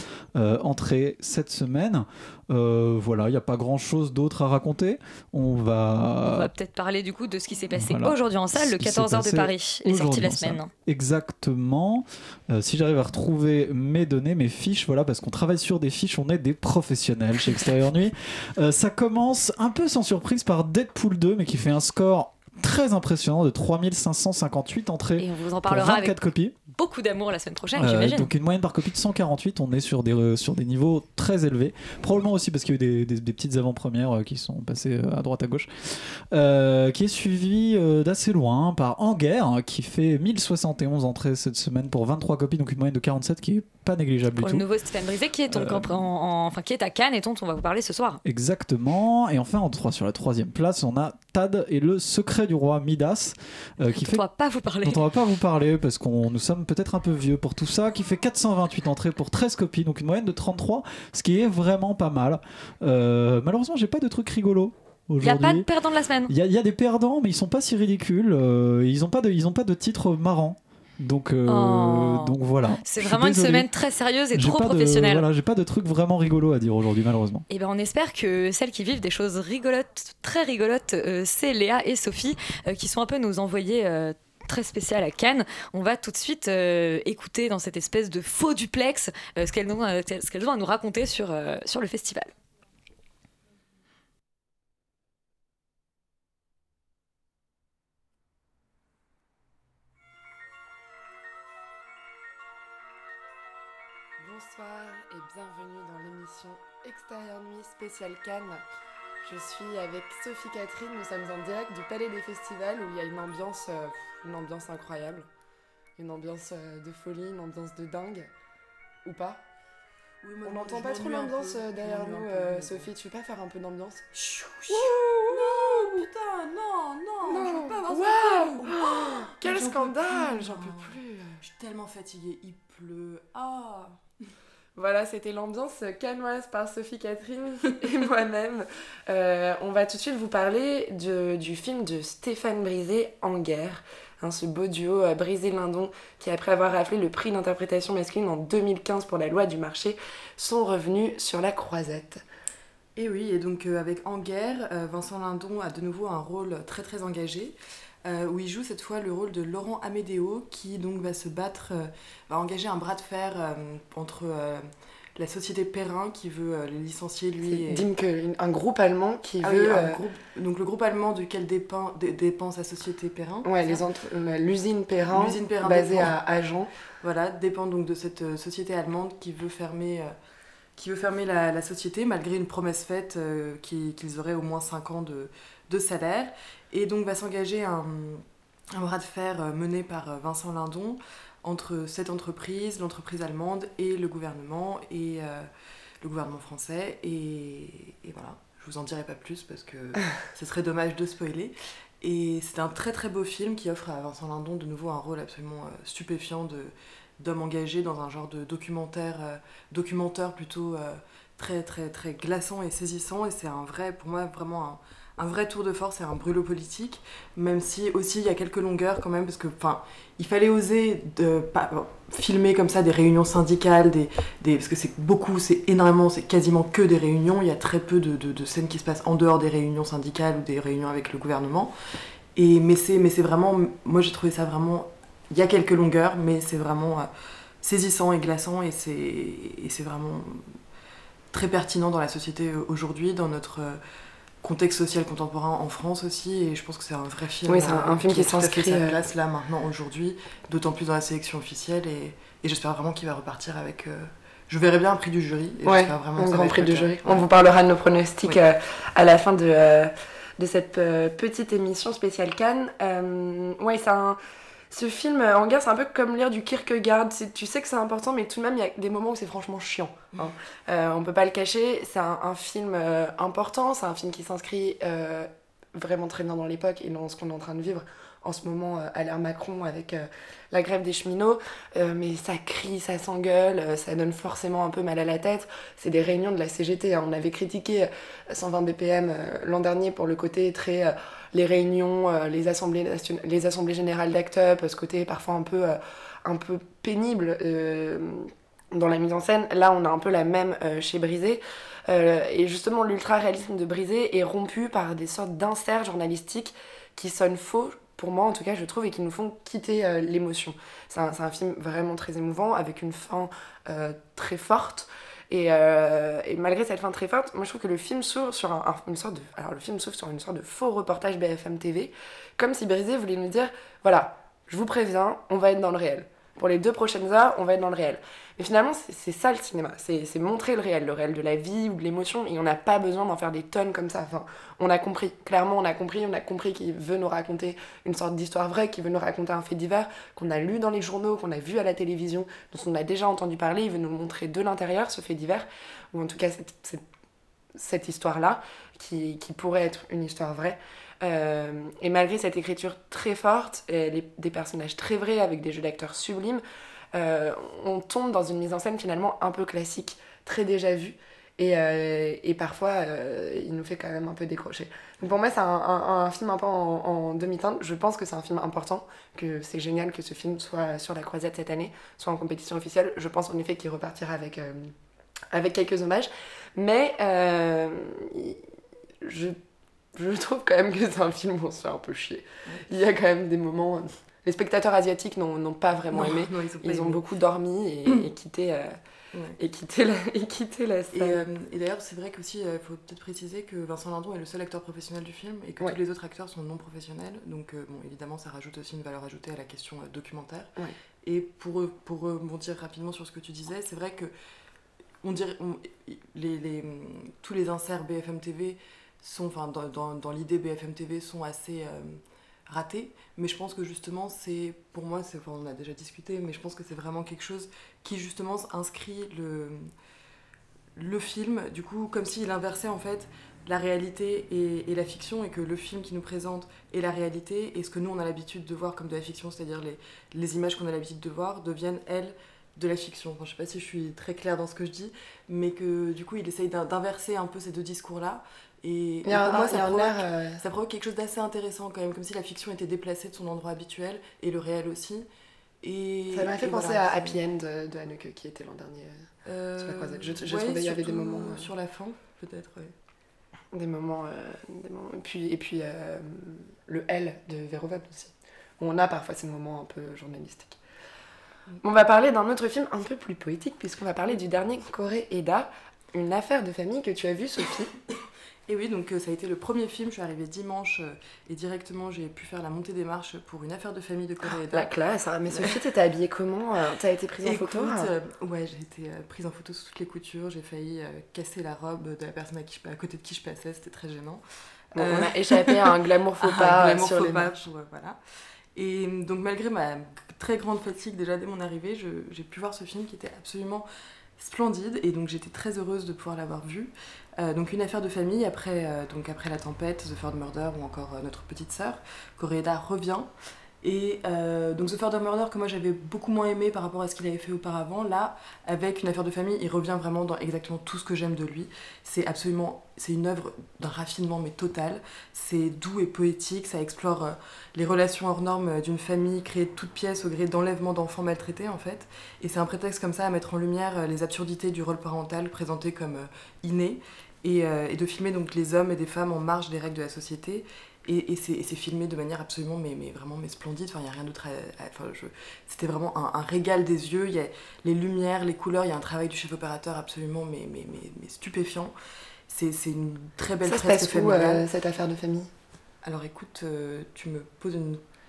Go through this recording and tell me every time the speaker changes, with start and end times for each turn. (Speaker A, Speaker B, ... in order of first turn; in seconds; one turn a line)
Speaker A: 0.3-6.5
Speaker B: 6.3-10.7
Speaker A: 7.8-26.5
Speaker B: 25.2-26.2
Speaker B: 26.7-28.3
Speaker A: 27.8-44.6
Speaker B: 44.4-48.2
Speaker A: 45.5-46.1
Speaker A: 48.2-54.2
Speaker B: 53.8-55.0
Speaker A: 54.8-65.7
Speaker B: 65.2-66.3
Speaker A: 66.3-73.7
Speaker B: 71.5-75.2
Speaker A: 74.3-77.4
Speaker B: 77.5-92.3
Speaker C: 104.2-108.6
Speaker C: 109.2-115.3
Speaker C: 116.0-118.3
Speaker C: 119.0-119.4
Speaker D: 120.2-122.9
Speaker C: 120.4-124.1
Speaker D: 124.1-134.0
Speaker C: 124.7-126.0
Speaker C: 127.3-131.4
Speaker C: 134.8-152.2
Speaker D: 152.9-167.9
Speaker C: 167.4-170.0
Speaker D: 169.4-173.8
Speaker C: 173.4-176.7
Speaker D: 175.1-176.2
Speaker D: 177.0-180.1
Speaker D: 180.8-195.5
Speaker D: 196.0-231.7
Speaker D: 232.3-237.1
Speaker D: 237.6-240.6
Speaker D: 241.3-243.8
Speaker D: 244.4-257.2
Speaker C: 247.4-249.0
Speaker C: 255.7-264.2
Speaker C: 264.7-346.8
Speaker C: 347.6-356.4
Speaker C: 356.9-374.7
Speaker C: 375.3-378.4
Speaker C: 379.0-379.4
Speaker C: 379.9-388.8
Speaker D: 385.9-387.0
Speaker C: 389.4-391.2
Speaker D: 390.9-400.5
Speaker D: 401.0-404.1
Speaker D: 405.0-419.7
Speaker D: 420.7-445.1
Speaker C: 439.1-440.4
Speaker D: 445.6-447.2
Speaker C: 446.1-449.1
Speaker D: 449.2-452.7
Speaker C: 449.6-451.5
Speaker C: 453.5-460.6
Speaker C: 461.6-467.7
Speaker D: 468.5-474.7
Speaker C: 474.3-477.9
Speaker D: 475.3-475.6
Speaker D: 477.2-484.2
Speaker C: 484.7-487.3
Speaker D: 484.8-488.0
Speaker D: 488.6-493.7
Speaker D: 494.2-503.1
Speaker D: 503.6-541.7
Speaker D: 542.3-544.4
Speaker C: 543.4-545.3
Speaker D: 545.8-547.8